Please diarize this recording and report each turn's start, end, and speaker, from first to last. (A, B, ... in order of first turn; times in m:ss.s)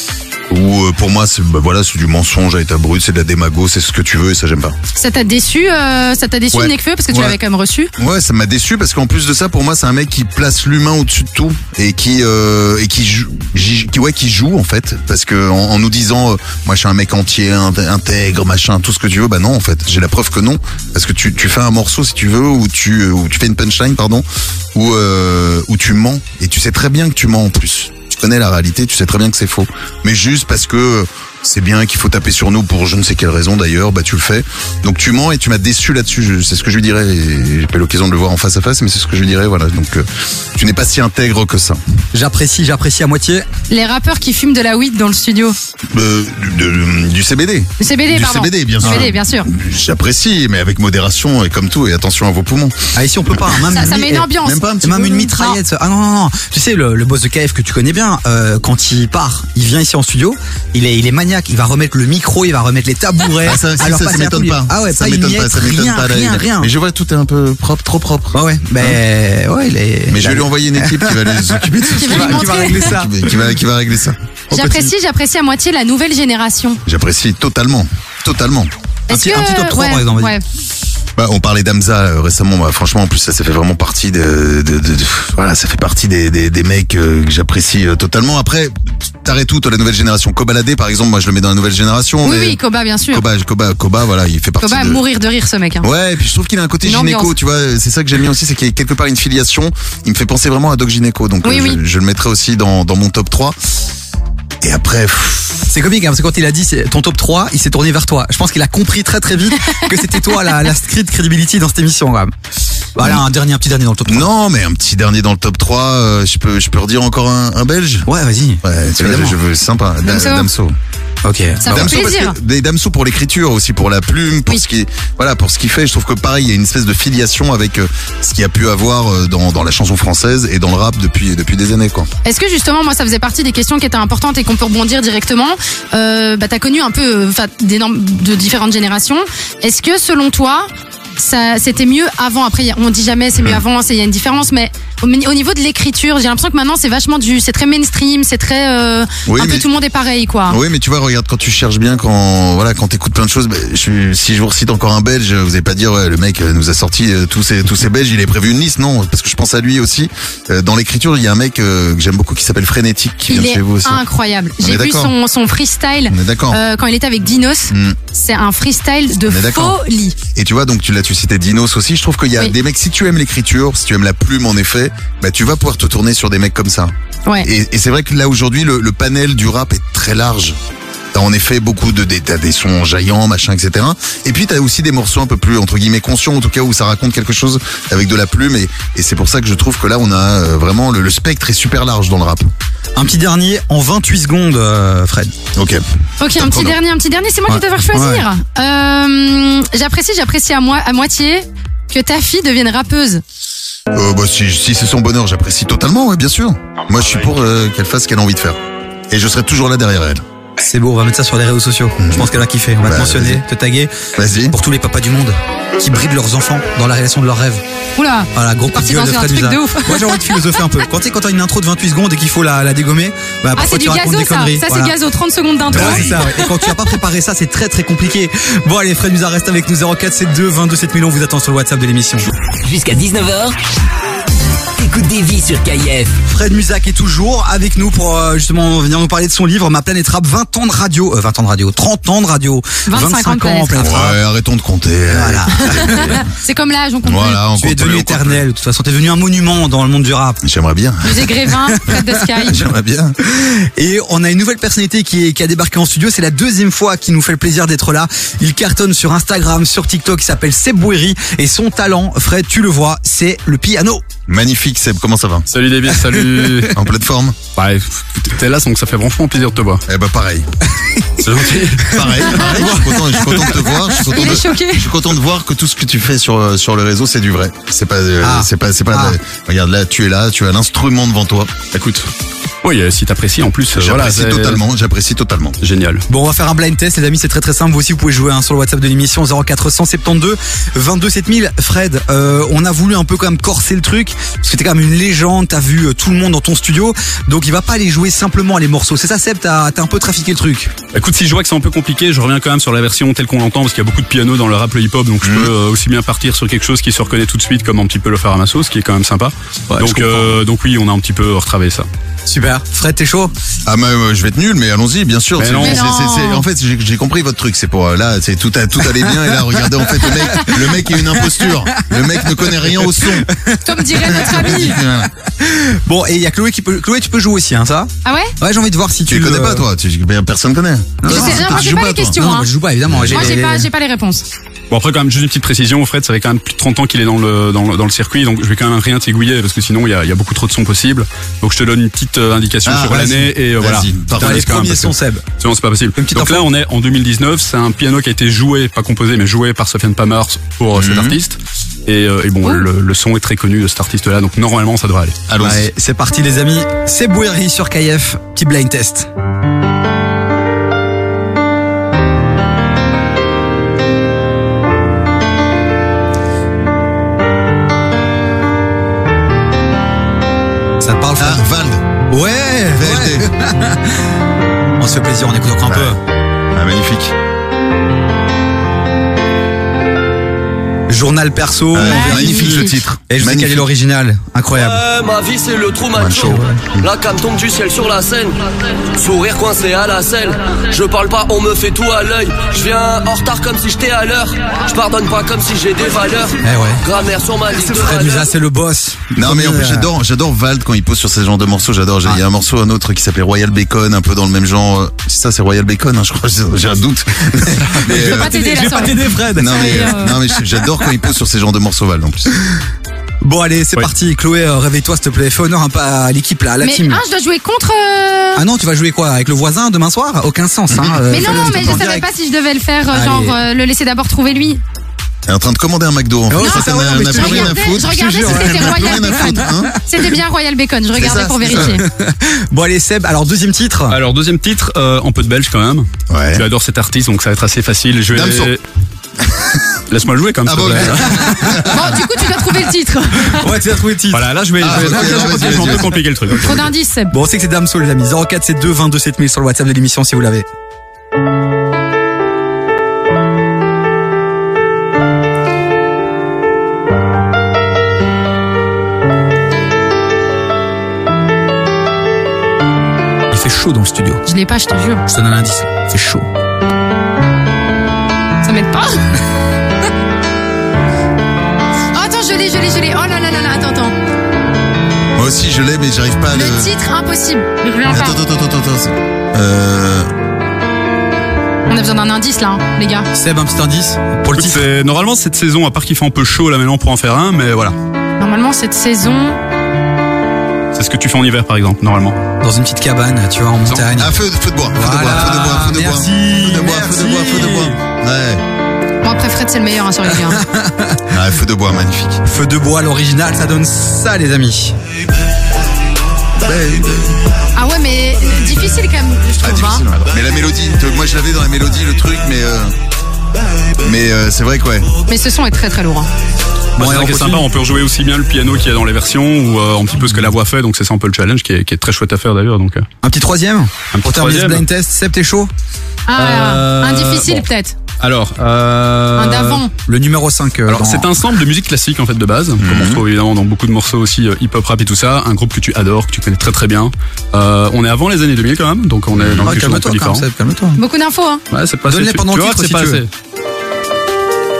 0:00.5-0:04.8 A
0:05.0-0:07.9 B
0:06.5-0:07.4 A
0:08.0-0:41.8 A
0:42.1-0:43.4 C
0:43.7-0:45.6 B
0:45.9-0:52.8 A
0:47.8-0:49.5 B
0:48.8-0:49.1 C
0:52.9-0:54.3 C
0:53.3-0:53.7 A
0:53.7-0:55.6 B
0:54.4-0:55.0 A
0:54.8-1:06.7 C
1:03.4-1:09.0 A
1:08.3-1:13.3 C
1:10.1-1:14.2 A
1:11.9-1:12.9 B
1:14.5-1:14.9 C
1:14.5-1:16.8 B
1:16.9-1:18.7 A
1:19.1-1:20.4 B
1:19.1-1:20.3 C
1:21.2-1:32.6 A
1:32.2-1:33.2 B
1:33.1-1:35.0 A
1:34.6-1:35.9 B
1:35.8-1:43.6 A
1:36.8-1:37.3 B
1:41.4-1:41.8 B
1:44.6-1:45.7 A
1:45.7-1:52.3 C
1:49.9-1:50.4 B
1:53.0-1:54.3 C
1:53.0-1:53.2 A
1:54.0-1:58.1 A
1:58.0-1:59.4 C
1:58.6-2:00.8 A
2:00.0-2:00.5 B
2:01.2-2:01.9 C
2:01.6-2:02.4 B
2:01.6-2:12.1 A
2:12.2-2:30.6 B
2:29.2-2:29.6 A
2:30.5-2:44.0 A
2:43.3-2:50.2 B
2:44.6-2:45.1 A
2:46.1-2:46.6 A
2:47.7-2:48.0 A
2:49.2-2:49.8 A
2:50.4-3:00.6 A
3:01.1-3:12.5 A
3:13.0-3:15.3 C
3:15.6-3:15.8 A
3:16.2-3:23.2 B
3:16.4-3:16.8 A
3:17.5-3:18.2 C
3:23.9-3:28.6 A
3:29.1-3:30.2 A
3:30.6-3:33.9 C
3:32.0-3:33.4 A
3:34.2-3:34.5 A
3:34.5-3:37.6 C
3:38.0-3:40.6 B
3:38.3-3:44.9 C
3:43.5-3:46.8 B
3:45.7-3:46.2 A
3:45.7-3:52.3 C
3:52.6-3:53.6 D
3:54.8-3:56.2 D
3:56.2-4:04.2 C
4:02.9-4:03.9 B
4:03.8-4:06.2 A
4:05.1-4:06.2 C
4:05.6-4:07.4 B
4:07.0-4:08.4 A
4:07.6-4:10.4 C
4:10.4-4:11.4 A
4:11.0-4:12.6 B
4:11.7-4:12.1 C
4:12.5-4:13.2 A
4:13.2-4:24.0 C
4:24.3-4:25.5 A
4:25.5-4:26.8 E
4:26.7-4:27.4 A
4:27.5-4:29.8 E
4:29.9-4:30.5 A
4:31.2-4:32.0 E
4:31.8-4:41.6 A
4:32.3-4:33.4 C
4:34.0-4:34.9 B
4:38.2-4:39.2 C
4:41.7-4:42.1 E
4:42.6-4:44.6 E
4:43.7-4:45.6 A
4:45.6-4:46.0 E
4:46.1-5:00.7 C
5:00.9-5:11.9 E
5:05.2-5:05.5 A
5:09.7-5:10.4 C
5:12.2-5:13.3 C
5:13.6-5:23.3 A
5:15.4-5:15.8 E
5:15.6-5:16.4 B
5:19.0-5:24.5 C
5:23.6-5:24.8 B
5:24.0-5:25.1 A
5:25.2-5:29.6 C
5:28.0-5:28.4 B
5:29.1-5:32.2 A
5:31.0-5:33.7 C
5:31.1-5:32.5 B
5:32.9-5:33.4 A
5:33.1-5:34.3 B
5:34.7-5:55.2 E
5:42.6-5:44.8 A
5:44.2-5:45.3 C
5:46.0-5:46.5 C
5:50.7-5:51.2 A
5:55.3-5:55.7 A
5:55.4-5:59.1 C
6:10.8-6:11.4 C
6:11.2-6:11.8 A
6:12.1-6:14.1 C
6:12.8-6:13.3 A
6:14.8-6:16.0 C
6:15.6-6:16.0 A
6:16.5-6:17.1 A
6:20.9-6:24.8 C
6:21.7-6:23.7 A
6:21.8-6:22.8 B
6:24.5-6:38.3 F
6:25.9-6:26.9 A
6:26.2-6:26.6 C
6:36.4-6:36.8 C
6:37.5-6:39.9 C
6:39.1-6:48.3 A
6:47.7-6:50.1 C
6:47.9-6:50.2 B
6:49.4-6:52.4 A
6:53.2-6:57.0 C
6:56.6-6:58.4 B
6:58.4-7:02.0 C
7:00.7-7:01.8 A
7:01.1-7:04.6 B
7:02.9-7:03.4 C
7:05.3-7:09.8 A
7:06.3-7:09.8 C
7:06.4-7:11.8 B
7:11.0-7:11.8 A
7:11.5-7:14.0 C
7:13.9-7:18.6 E
7:16.1-7:16.4 A
7:18.1-7:18.5 A
7:19.4-7:19.6 A
7:19.9-7:21.3 E
7:20.4-7:22.1 A
7:21.0-7:21.7 C
7:21.6-7:23.5 B
7:23.2-7:25.7 C
7:24.1-7:26.6 E
7:24.6-7:26.5 A
7:26.4-7:27.1 B
7:27.1-7:30.5 C
7:43.3-7:44.2 C
7:44.2-7:45.0 B
7:45.1-7:46.3 C
7:48.4-7:49.1 B
7:51.9-7:53.9 B
7:55.2-7:56.7 A
7:56.3-7:58.2 B
7:57.9-8:00.1 A
8:01.7-8:03.1 B
8:03.1-8:04.6 C
8:04.3-8:07.8 E
8:08.2-8:09.4 B
8:10.7-8:12.2 E
8:12.4-8:14.1 C
8:13.6-8:13.9 E
8:13.9-8:18.4 A
8:14.7-8:17.8 C
8:19.0-8:20.4 B
8:20.1-8:21.0 C
8:21.1-8:22.2 A
8:22.2-8:24.8 C
8:26.4-8:27.2 A
8:27.5-8:29.8 B
8:29.4-8:32.7 A
8:33.8-8:34.9 A
8:35.1-8:36.1 B
8:36.8-8:37.5 C
8:36.8-8:42.8 E
8:43.0-8:45.5 C
8:43.9-8:44.6 E
8:46.1-8:47.8 B
8:46.2-8:47.4 E
8:48.0-8:49.6 E
8:49.2-8:49.7 B
8:49.9-8:51.2 C
8:50.7-9:00.3 E
8:52.6-8:53.0 A
8:59.1-8:59.5 A
8:59.4-9:00.8 C
9:00.8-9:01.4 B
9:01.5-9:03.1 E
9:01.9-9:03.0 C